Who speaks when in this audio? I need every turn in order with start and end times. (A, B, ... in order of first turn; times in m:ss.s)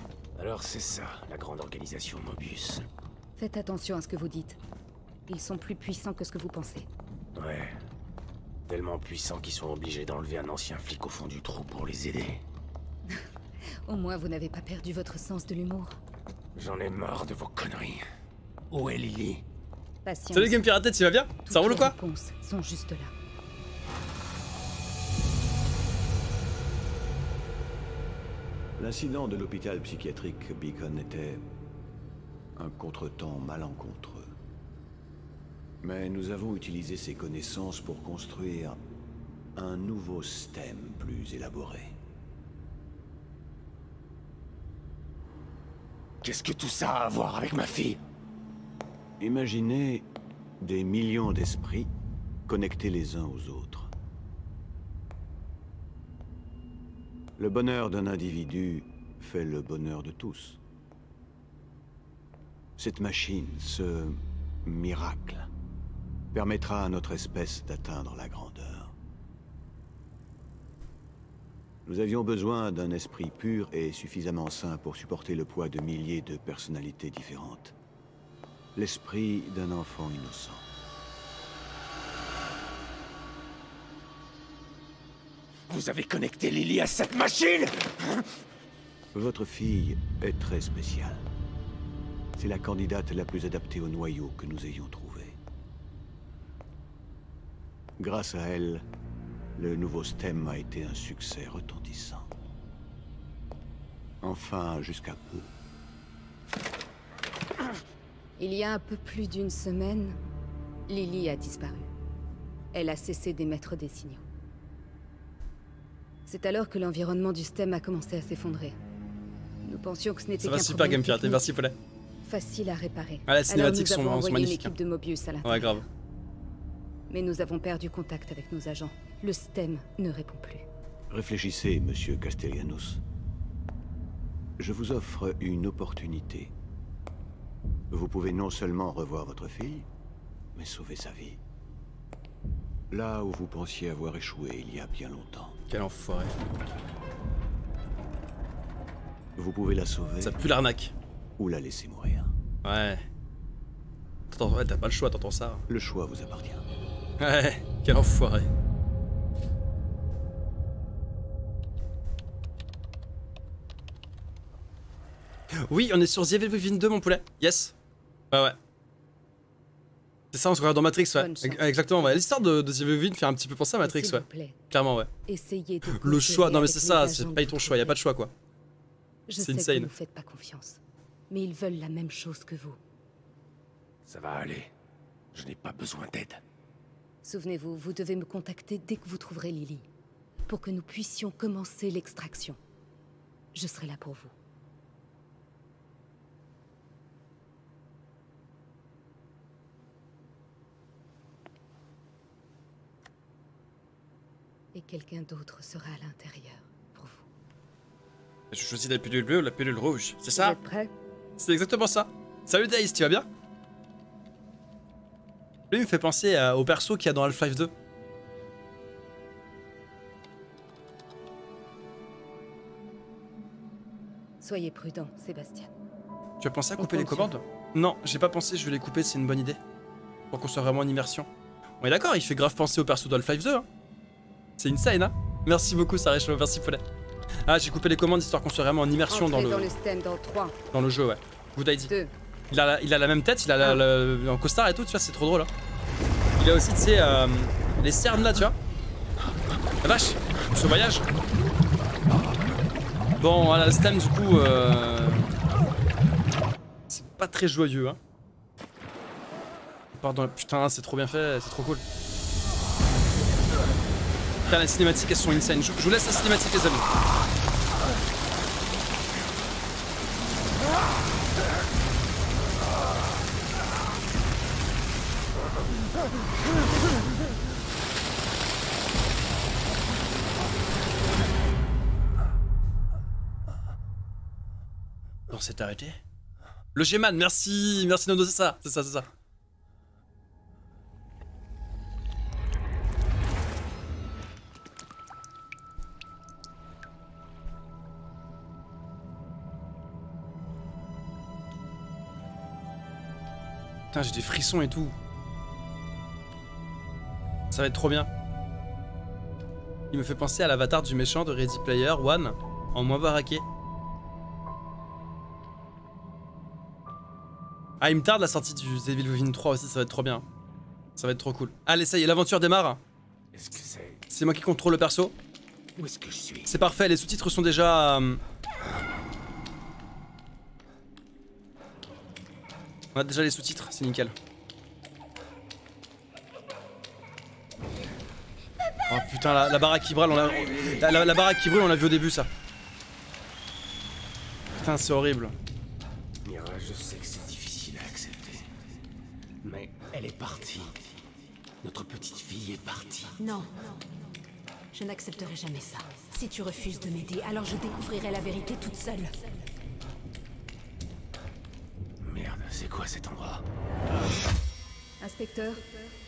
0:00.4-0:02.9 A
0:03.4-0:04.6 B
0:05.3-0:06.9 B
0:07.3-0:07.8 A
0:08.7-0:12.4 A
0:13.8-0:16.0 B
0:16.6-0:18.0 A
0:18.7-0:19.4 A
0:20.0-0:20.6 B
0:20.3-0:22.0 C
0:21.5-0:23.1 B
0:28.8-0:31.4 D
0:32.6-0:34.4 D
0:35.8-0:38.8 D
0:39.5-0:41.9 D
0:46.2-0:48.0 A
0:49.2-0:50.1 D
0:50.6-0:51.9 D
0:52.5-0:53.9 D
0:57.4-1:00.6 D
1:02.8-1:05.5 D
1:06.3-1:08.9 D
1:11.8-1:17.7 D
1:18.7-1:20.7 D
1:25.7-1:28.4 A
1:29.1-1:31.2 D
1:32.4-1:35.4 D
1:38.0-1:38.8 D
1:39.5-1:42.3 D
1:44.2-1:45.5 D
1:48.4-1:50.2 B
1:50.9-1:51.9 B
1:52.7-1:54.2 B
1:56.3-1:58.8 B
1:59.6-2:01.4 B
2:00.4-2:01.7 C
2:02.2-2:05.8 B
2:03.3-2:04.7 C
2:05.4-2:05.8 C
2:07.1-2:10.7 B
2:11.1-2:13.0 D
2:14.6-2:16.5 D
2:17.9-2:19.9 D
2:20.5-2:21.4 D
2:22.9-2:25.6 D
2:25.7-2:26.3 C
2:29.4-2:30.4 D
2:30.2-2:30.9 C
2:31.4-2:32.3 D
2:32.6-2:33.0 C
2:34.3-2:35.6 C
2:35.7-2:36.6 D
2:37.2-2:38.5 C
2:45.6-2:47.7 C
2:48.3-2:48.6 C
2:50.3-2:55.1 C
2:51.2-2:51.6 B
2:53.8-2:54.6 B
2:55.3-2:58.0 B
2:55.9-2:58.3 C
2:59.3-3:02.8 B
2:59.4-2:59.9 C
3:04.1-3:04.7 A
3:05.3-3:06.4 A
3:07.2-3:09.9 B
3:10.4-3:12.6 B
3:13.5-3:14.3 B
3:24.7-3:27.2 B
3:28.5-3:30.6 C
3:30.3-3:30.9 B
3:31.4-3:33.3 C
3:35.7-3:37.7 C
3:44.4-3:45.7 B
3:46.4-3:49.6 C
3:50.3-3:51.3 C
3:51.8-3:53.6 C
3:54.6-3:56.8 C
3:57.4-3:59.7 C
3:59.1-4:00.6 B
4:00.7-4:01.9 C
4:01.9-4:02.1 B
4:02.5-4:05.5 C
4:06.4-4:08.6 C
4:09.8-4:11.1 C
4:13.2-4:15.3 C
4:16.9-4:18.0 C
4:19.9-4:21.8 C
4:24.5-4:26.9 C
4:45.3-4:46.0 C
4:46.7-4:49.1 C
5:03.9-5:04.9 C
5:07.5-5:08.1 C
5:09.9-5:13.4 C
5:17.8-5:20.2 C
5:21.0-5:22.8 C
5:23.3-5:24.0 A
5:24.1-5:25.1 C
5:25.8-5:26.6 A
5:26.5-5:28.2 C
5:32.9-5:34.1 C
5:38.9-5:42.3 C
5:40.5-5:40.8 A
5:44.5-5:45.3 C
5:46.2-5:48.5 A
5:49.4-5:50.9 A
5:51.6-5:53.1 A
5:53.2-5:53.8 E
5:54.7-5:59.3 E
6:02.0-6:03.4 A
6:05.0-6:05.8 B